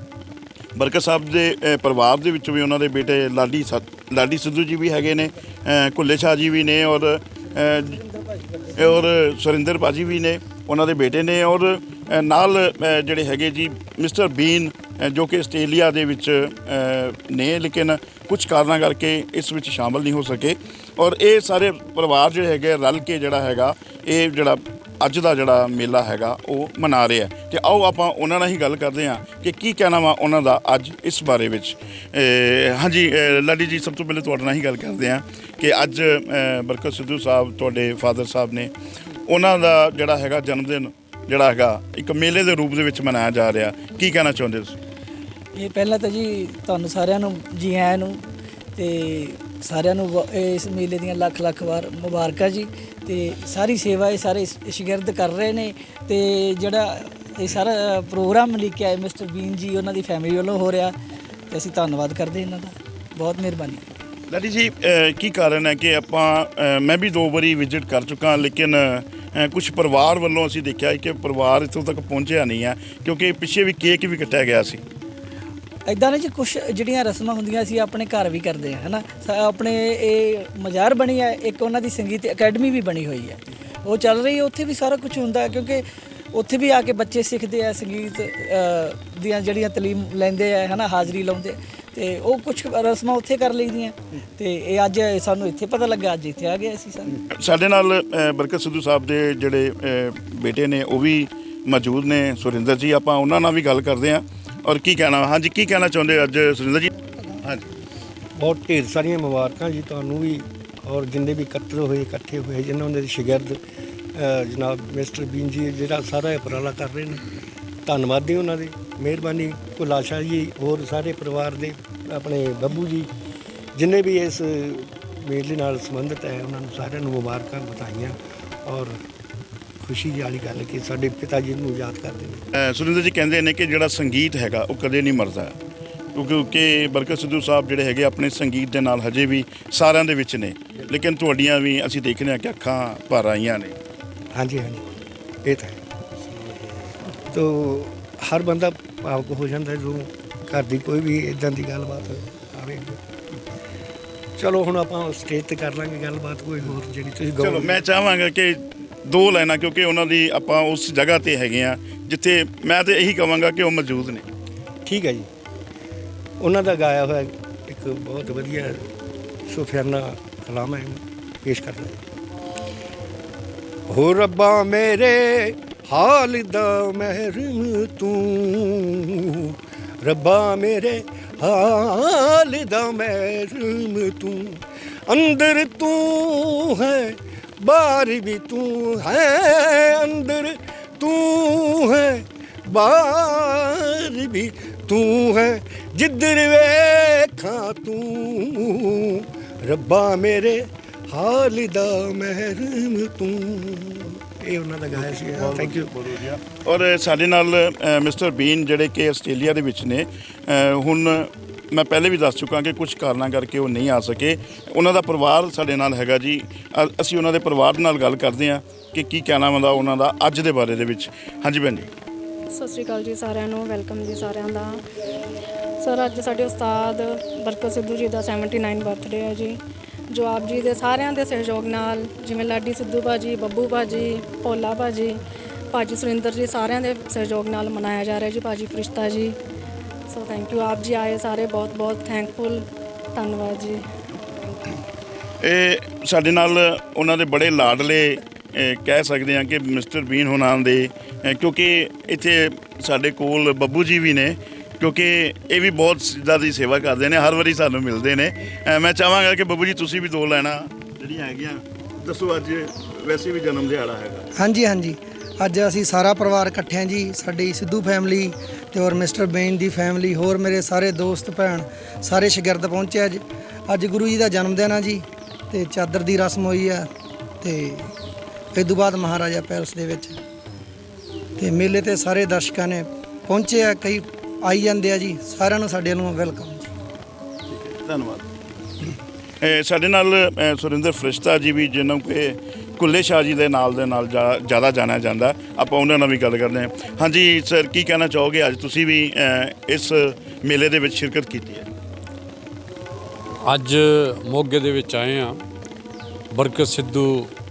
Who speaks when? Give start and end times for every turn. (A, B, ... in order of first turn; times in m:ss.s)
0:00.8-0:08.0 A
0:08.8-0:38.7 A
0:39.3-0:44.8 A
0:45.6-0:48.2 B
0:48.8-1:01.0 B
1:01.5-1:03.9 B
1:04.3-1:14.8 A
1:15.9-1:37.2 B
1:37.4-1:47.6 A
1:48.4-1:53.6 C
1:54.1-1:57.2 C
1:57.8-2:03.1 C
2:03.8-2:09.0 C
2:09.8-2:12.4 C
2:12.6-2:15.6 A
2:16.1-2:23.8 A
2:24.3-2:24.8 C
2:25.4-2:25.8 C
2:27.3-2:33.0 C
2:34.4-2:37.7 C
2:37.4-2:44.2 A
2:44.8-2:45.3 C
2:46.4-2:48.8 C
2:49.5-2:52.0 C
2:53.9-3:25.9 C
3:24.9-3:41.9 A
3:42.5-3:44.8 D
3:45.8-3:59.4 D
4:00.1-4:03.8 D
4:05.4-4:24.3 A
4:24.4-4:36.9 E
4:37.4-4:37.9 E
4:38.5-4:40.2 E
4:41.4-4:46.6 E
4:47.5-4:48.3 A
4:49.4-5:01.7 A
5:03.4-5:05.4 F
5:06.3-5:07.3 F